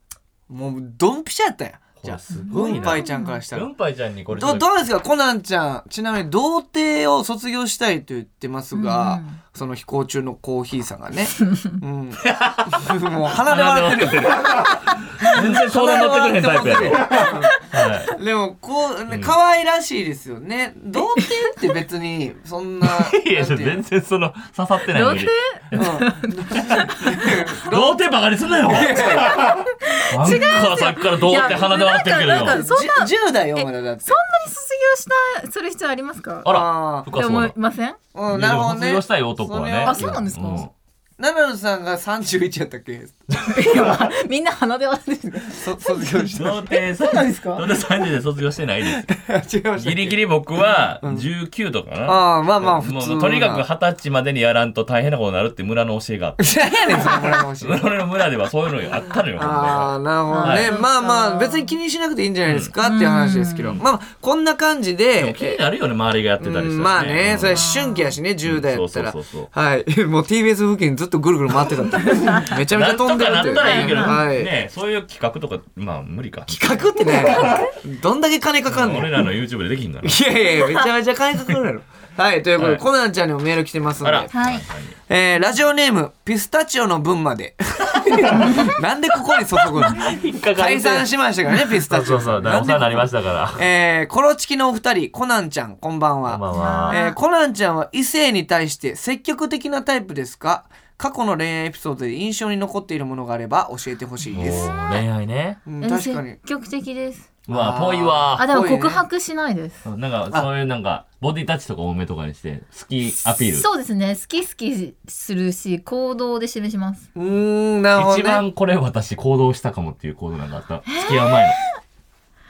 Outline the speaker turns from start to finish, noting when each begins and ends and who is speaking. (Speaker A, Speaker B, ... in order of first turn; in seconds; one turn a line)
Speaker A: 0.5-3.7
Speaker B: 2.0-4.7
Speaker C: 2.3-3.4
Speaker A: 4.3-17.6
Speaker C: 8.7-9.4
Speaker B: 12.2-18.1
Speaker A: 18.1-23.8
Speaker B: 19.1-19.3
Speaker B: 22.8-26.0
Speaker C: 24.9-27.3
Speaker A: 25.7-28.1
Speaker B: 26.6-32.6
Speaker A: 28.6-29.6
Speaker C: 29.5-36.5
Speaker A: 31.3-31.7
Speaker A: 32.4-34.2
Speaker B: 36.4-37.5
Speaker A: 36.5-37.1
Speaker C: 37.1-38.0
Speaker A: 38.1-40.0
Speaker B: 38.3-40.7
Speaker C: 39.8-40.7
Speaker A: 41.2-43.2
Speaker C: 43.5-47.7
Speaker B: 43.5-44.0
Speaker A: 45.5-46.7
Speaker B: 46.3-49.1
Speaker A: 49.0-50.2
Speaker B: 49.8-60.8
Speaker A: 52.0-53.6
Speaker A: 56.4-57.9
Speaker A: 59.3-65.6
Speaker C: 60.3-61.7
Speaker B: 62.5-62.7
Speaker C: 62.8-63.8
Speaker B: 65.2-67.7
Speaker A: 66.4-74.5
Speaker C: 67.5-68.1
Speaker B: 68.4-69.5
Speaker B: 72.4-77.5
Speaker C: 73.5-74.2
Speaker A: 76.5-79.3
Speaker C: 77.4-77.7
Speaker B: 78.7-80.3
Speaker A: 80.0-84.3
Speaker B: 82.6-82.8
Speaker B: 84.0-85.0
Speaker C: 84.3-84.7
Speaker A: 85.1-104.7
Speaker B: 88.1-88.6
Speaker C: 88.4-88.7
Speaker B: 89.6-93.7
Speaker B: 96.3-97.0
Speaker C: 96.5-97.2
Speaker B: 104.3-105.6
Speaker A: 105.7-106.3
Speaker C: 105.8-107.2
Speaker B: 107.5-108.6
Speaker A: 107.5-109.0
Speaker C: 108.4-109.8
Speaker B: 109.8-113.7
Speaker C: 113.5-117.0
Speaker A: 117.2-118.4
Speaker B: 117.9-121.6
Speaker C: 120.8-121.5